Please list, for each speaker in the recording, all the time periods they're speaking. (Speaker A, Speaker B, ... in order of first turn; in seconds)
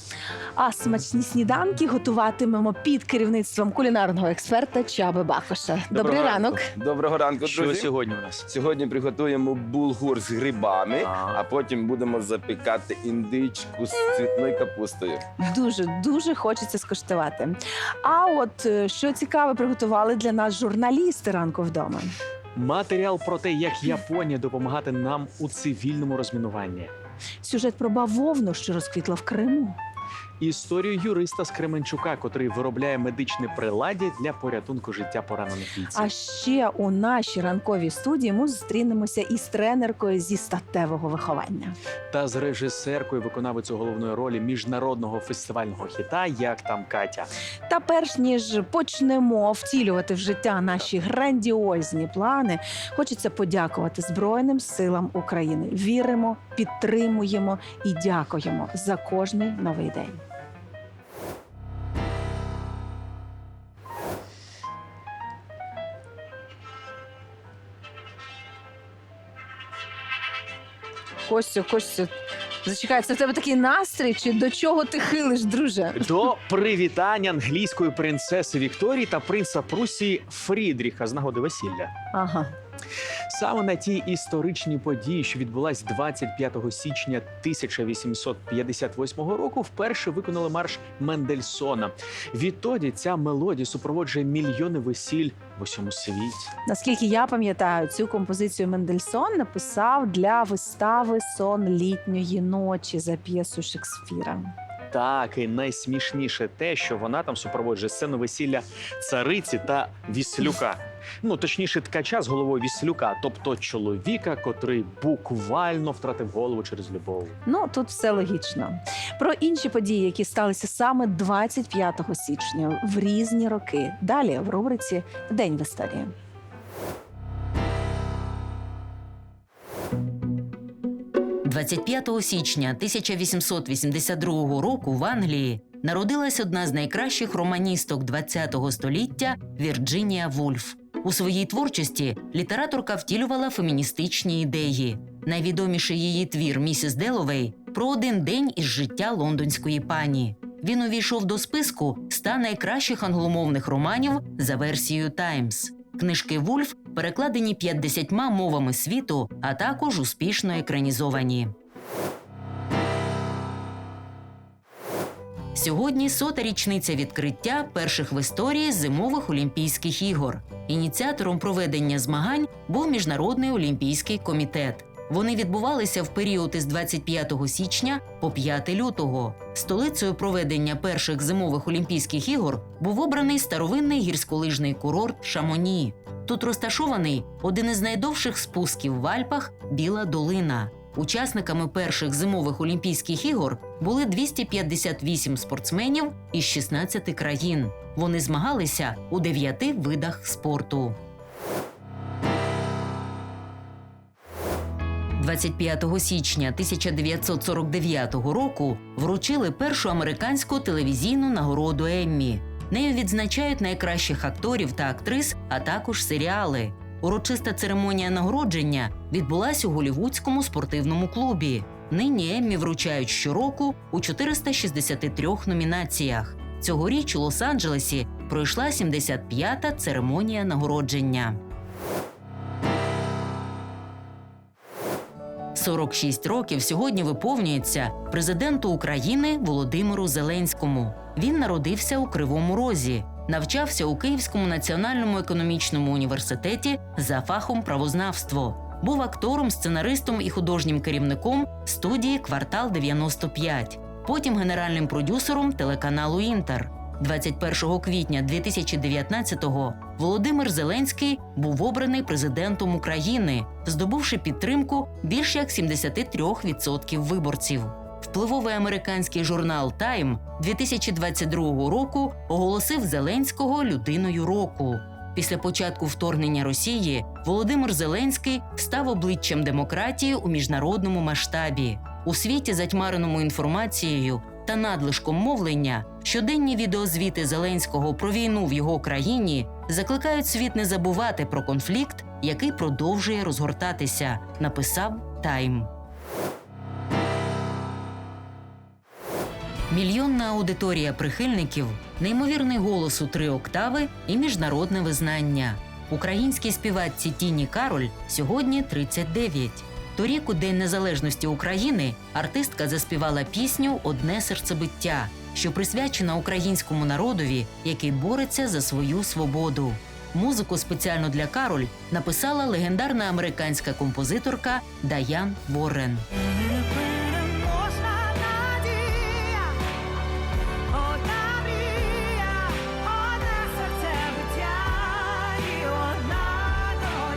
Speaker A: 0.6-6.7, 15.4-22.1, 27.4-29.8, 35.9-41.8, 47.7-60.2, 71.3-76.1, 82.1-82.5, 96.7-104.5, 117.5-126.1, 327.4-329.4, 331.1-337.1
Speaker B: 5.9-7.9, 8.5-15.2
Speaker C: 7.4-8.4, 11.0-11.4, 22.6-26.9, 30.4-36.1, 42.1-47.3, 76.0-81.9, 83.3-96.5, 104.9-117.3
Speaker D: 131.4-161.5, 165.5-201.0, 205.2-231.4, 235.5-295.7, 299.7-326.1